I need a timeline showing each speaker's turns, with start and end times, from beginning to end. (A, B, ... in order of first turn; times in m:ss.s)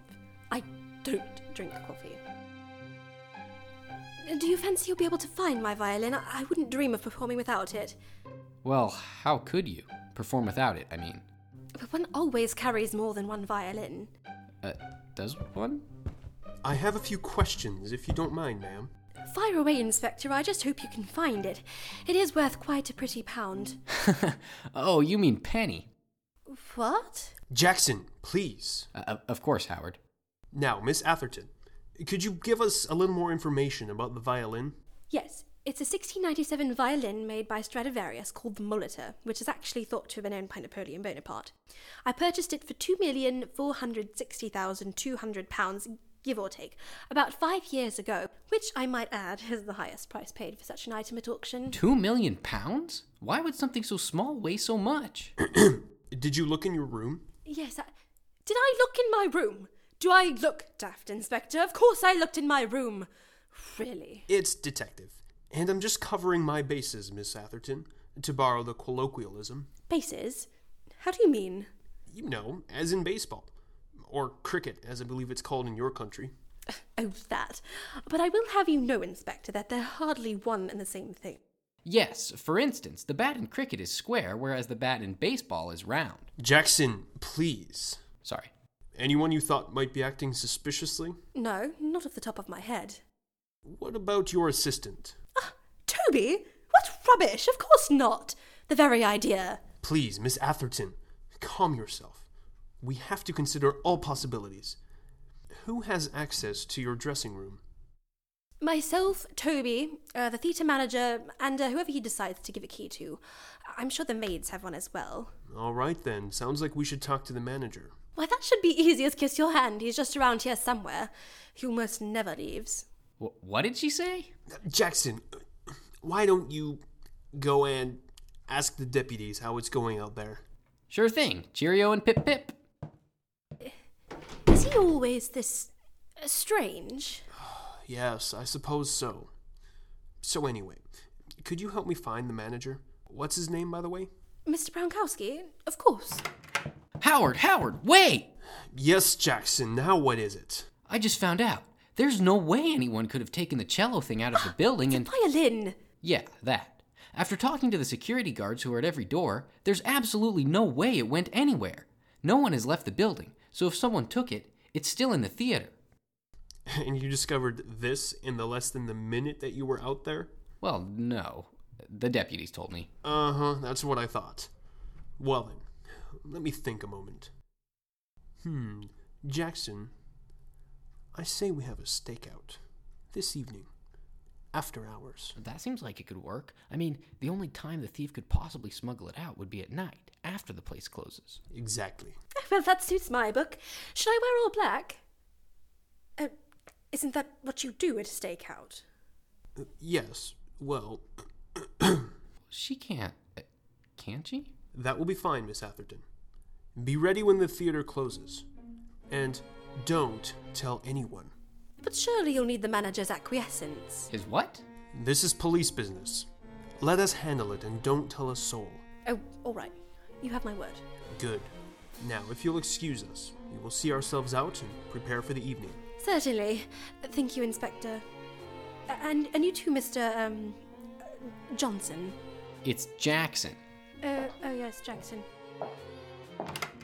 0:00.5-0:02.2 A
0:04.2-0:08.0 A
0:08.6-0:11.2 B
0:11.8-0:14.1 A
0:14.6-0:15.9 B
0:16.6-0:18.9 C
0:19.3-0:23.8 A
0:24.0-0:25.9 B
0:26.5-0:27.4 A
0:27.5-0:28.9 C
0:29.0-0:30.0 B
0:30.5-0:34.8 C
0:35.1-0:41.5 A
0:42.0-0:51.8 A
0:51.7-0:55.3 B
0:55.4-0:57.2 C
0:57.5-0:57.9 A
0:58.4-1:04.3 A
1:04.3-1:09.7 C
1:09.9-1:10.5 A
1:11.0-1:11.7 A
1:12.1-1:16.3 C
1:17.0-1:21.4 A
1:21.8-1:26.3 B
1:26.4-1:28.0 C
1:28.2-1:28.5 B
1:29.0-1:31.2 C
1:31.4-1:33.0 A
1:33.7-1:35.2 C
1:35.4-1:39.6 A
1:39.8-1:42.3 C
1:42.8-1:44.8 C
1:45.6-1:47.6 C
1:48.6-1:55.3 A
1:55.5-1:58.0 C
1:58.2-2:02.9 A
2:03.2-2:04.3 B
2:04.6-2:05.2 C
2:06.0-2:10.4 C
2:10.9-2:12.6 B
2:14.4-2:17.2 A
2:17.3-2:19.3 C
2:20.2-2:20.8 C
2:21.4-2:24.1 C
2:24.5-2:26.2 A
2:27.0-2:28.3 B
2:28.7-2:30.7 C
2:30.9-2:35.1 B
2:34.4-2:35.8 A
2:36.0-2:45.7 B
2:46.7-2:50.3 C
2:50.6-2:52.9 B
2:53.0-2:54.5 C
2:55.2-2:57.3 C
2:58.4-2:59.9 C
3:01.1-3:02.6 C
3:03.1-3:03.7 C
3:04.5-3:05.4 C
3:05.4-3:11.4 B
3:11.5-3:12.2 C
3:12.4-3:15.0 A
3:16.9-3:18.8 A
3:19.6-3:22.1 C
3:22.5-3:23.5 B
3:24.0-3:24.5 B
3:24.7-3:26.0 C
3:26.8-3:28.5 C
3:29.1-3:31.3 C
3:31.8-3:34.1 A
3:34.1-3:34.6 B
3:34.9-3:36.3 C
3:36.8-3:38.8 C
3:39.1-3:40.8 A
3:41.1-3:45.8 C
3:46.0-3:48.0 A
3:48.9-3:52.2 A
3:52.6-3:53.6 B
3:54.0-3:55.3 A